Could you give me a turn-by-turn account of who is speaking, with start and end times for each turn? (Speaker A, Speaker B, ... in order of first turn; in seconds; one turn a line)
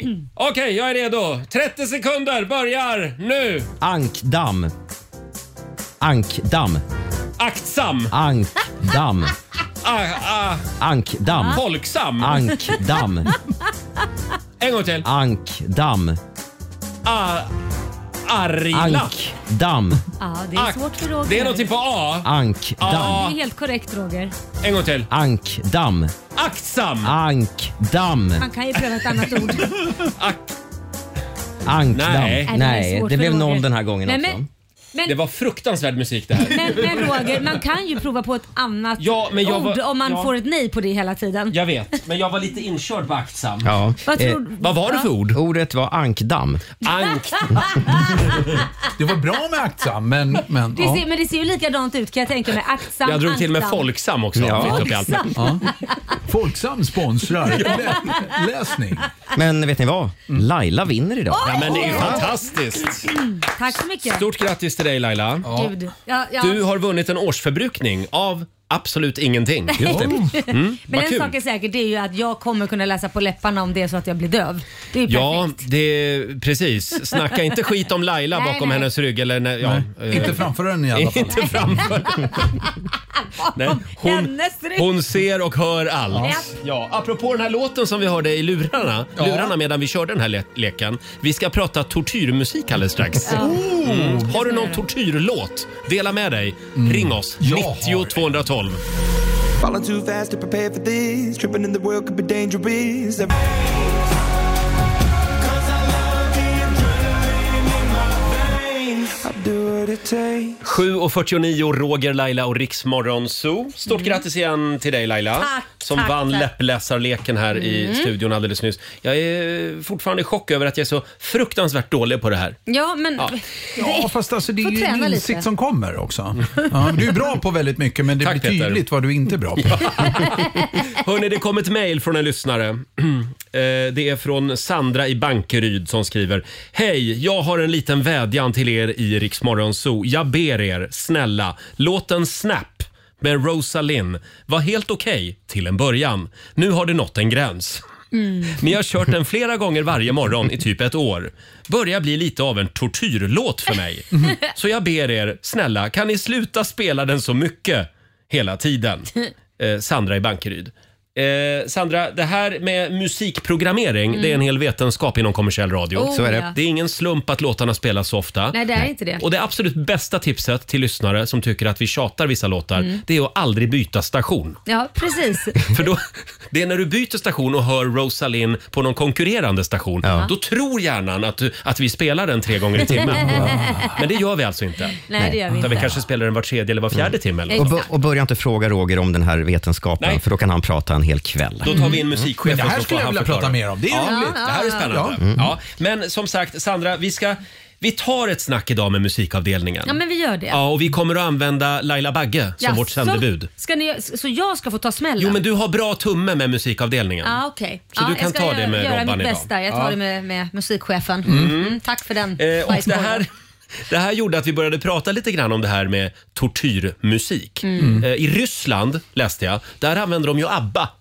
Speaker A: 0.3-3.7
Speaker B: 3.8-4.7
Speaker B: 6.0-6.8
Speaker A: 7.4-8.1
Speaker B: 8.1-9.3
Speaker A: 9.8-10.7
Speaker B: 10.8-11.6
Speaker C: 11.3-11.6
Speaker A: 11.5-12.4
Speaker B: 12.2-13.3
Speaker A: 14.6-15.1
Speaker B: 15.0-16.2
Speaker A: 17.0-17.5
Speaker A: 18.2-19.2
Speaker B: 18.7-20.0
Speaker C: 20.2-21.6
Speaker A: 20.6-23.4
Speaker B: 22.2-23.3
Speaker C: 22.9-24.3
Speaker A: 24.6-25.1
Speaker B: 25.1-26.2
Speaker A: 26.3-27.1
Speaker B: 27.0-28.4
Speaker C: 28.4-29.8
Speaker A: 29.6-30.5
Speaker B: 31.6-34.5
Speaker A: 31.9-32.5
Speaker C: 32.5-34.4
Speaker A: 35.1-37.4
Speaker C: 36.5-41.5
Speaker A: 39.0-40.3
Speaker A: 41.5-43.7
Speaker B: 43.6-44.4
Speaker C: 44.1-45.1
Speaker A: 44.6-45.4
Speaker B: 45.3-46.6
Speaker A: 46.8-47.8
Speaker C: 47.1-48.1
Speaker D: 49.0-51.0
Speaker C: 50.7-53.8
Speaker A: 53.0-55.4
Speaker B: 54.3-55.0
Speaker C: 54.5-56.1
Speaker D: 55.3-55.7
Speaker D: 56.2-59.1
Speaker A: 57.5-57.9
Speaker C: 57.7-58.1
Speaker B: 59.3-62.2
Speaker C: 61.3-62.4
Speaker A: 61.4-63.1
Speaker C: 63.1-64.2
Speaker A: 64.0-65.5
Speaker D: 65.4-65.7
Speaker C: 65.5-66.6
Speaker A: 66.4-71.3
Speaker C: 69.7-75.6
Speaker D: 69.8-70.4
Speaker A: 75.1-82.6
Speaker C: 78.3-78.9
Speaker D: 79.6-81.9
Speaker C: 81.3-84.9
Speaker A: 83.5-98.8
Speaker D: 86.1-86.4
Speaker C: 86.2-86.5
Speaker D: 89.2-89.5
Speaker C: 93.2-93.6
Speaker D: 93.3-94.3
Speaker C: 94.3-94.8
Speaker D: 96.8-98.2
Speaker E: 99.6-104.1
Speaker E: 105.4-110.6
Speaker A: 110.6-122.6
Speaker C: 113.9-114.2
Speaker C: 115.4-116.5
Speaker C: 117.5-118.1
Speaker C: 122.7-125.5
Speaker D: 123.8-130.0
Speaker A: 128.2-128.8
Speaker A: 129.6-147.8
Speaker C: 130.2-130.6
Speaker C: 148.1-148.6
Speaker A: 148.4-168.6
Speaker C: 164.1-164.4
Speaker C: 165.9-166.5
Speaker B: 166.1-166.5
Speaker C: 168.5-169.2
Speaker A: 169.2-174.6
Speaker C: 174.7-175.7
Speaker A: 175.6-185.0
Speaker B: 180.0-180.3
Speaker D: 182.9-184.0
Speaker C: 183.5-183.9
Speaker C: 185.0-185.9
Speaker B: 185.2-185.9
Speaker A: 185.6-187.8
Speaker B: 186.9-192.3
Speaker C: 187.5-187.9
Speaker A: 191.6-200.0
Speaker C: 191.7-192.0
Speaker D: 192.4-195.2
Speaker C: 194.0-194.9
Speaker B: 195.2-195.5
Speaker C: 199.8-200.6
Speaker A: 200.5-203.5
Speaker C: 202.6-205.4
Speaker A: 205.2-207.4
Speaker C: 207.2-213.2
Speaker A: 207.9-209.9
Speaker A: 211.2-211.8
Speaker D: 211.2-211.6
Speaker A: 212.4-213.3
Speaker A: 213.9-220.9
Speaker C: 217.6-218.0
Speaker D: 217.8-218.1